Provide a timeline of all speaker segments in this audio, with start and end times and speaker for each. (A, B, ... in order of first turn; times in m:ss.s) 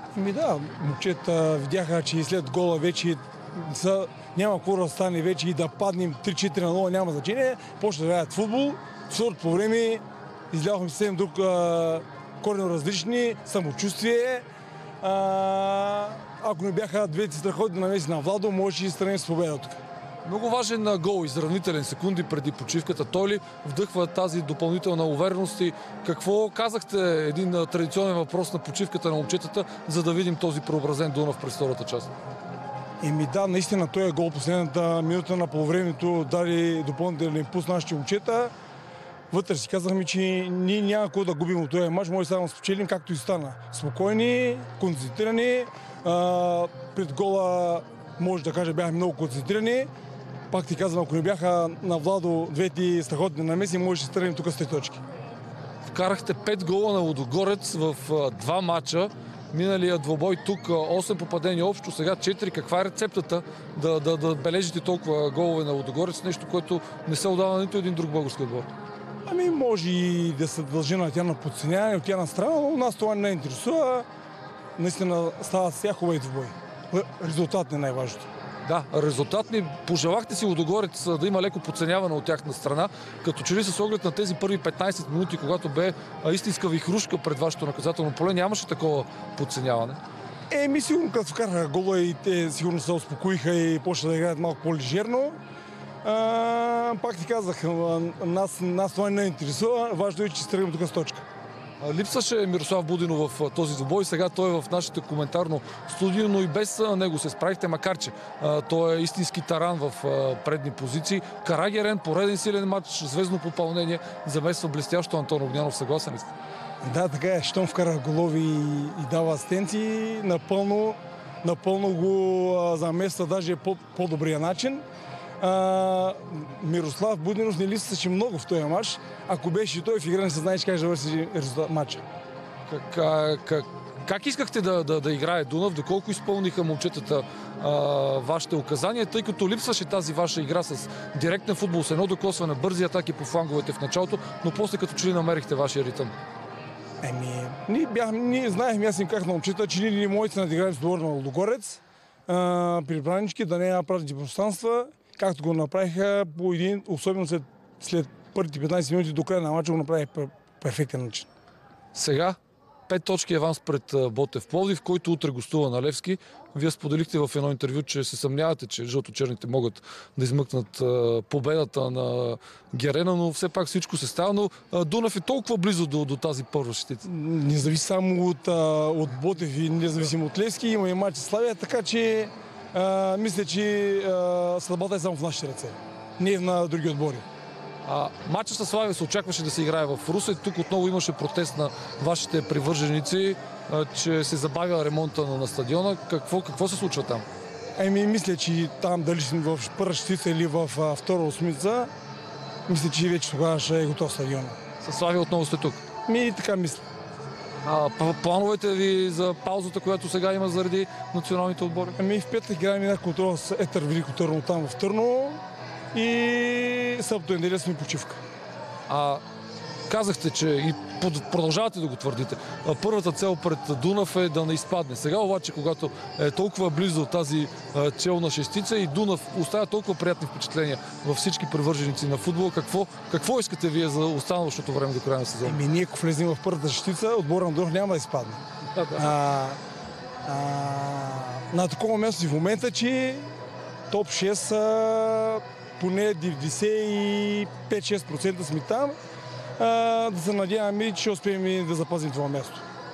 0:00.2-0:14.5 A
0:15.0-0:19.8 A
0:20.2-0:32.1 B
0:33.0-0:38.5 A
0:39.3-0:49.9 A
0:50.5-0:55.0 A
0:55.8-1:08.7 B
1:09.3-1:14.1 A
1:14.8-1:18.3 A
1:18.7-1:30.0 B
1:30.5-1:35.4 A
1:36.0-1:41.2 A
1:41.8-1:56.3 B
1:56.8-2:04.8 A
2:05.4-2:12.0 A
2:12.7-2:26.2 B
2:27.0-2:41.3 A
2:41.9-2:42.4 B
2:42.9-2:57.0 B
2:57.0-3:07.3 A
3:07.8-3:17.2 B
3:17.8-3:21.9 A
3:22.7-3:24.6 A
3:24.8-3:25.8 B
3:26.1-3:26.8 A
3:27.6-3:32.0 B
3:32.0-3:35.4 A
3:35.9-3:38.2 A
3:38.9-3:39.2 B
3:39.9-3:55.6 B
3:55.4-3:58.4 A
3:58.7-3:59.0 B
3:59.0-3:59.6 A
4:00.2-4:03.3 A
4:03.9-4:09.0 A
4:09.6-4:12.6 A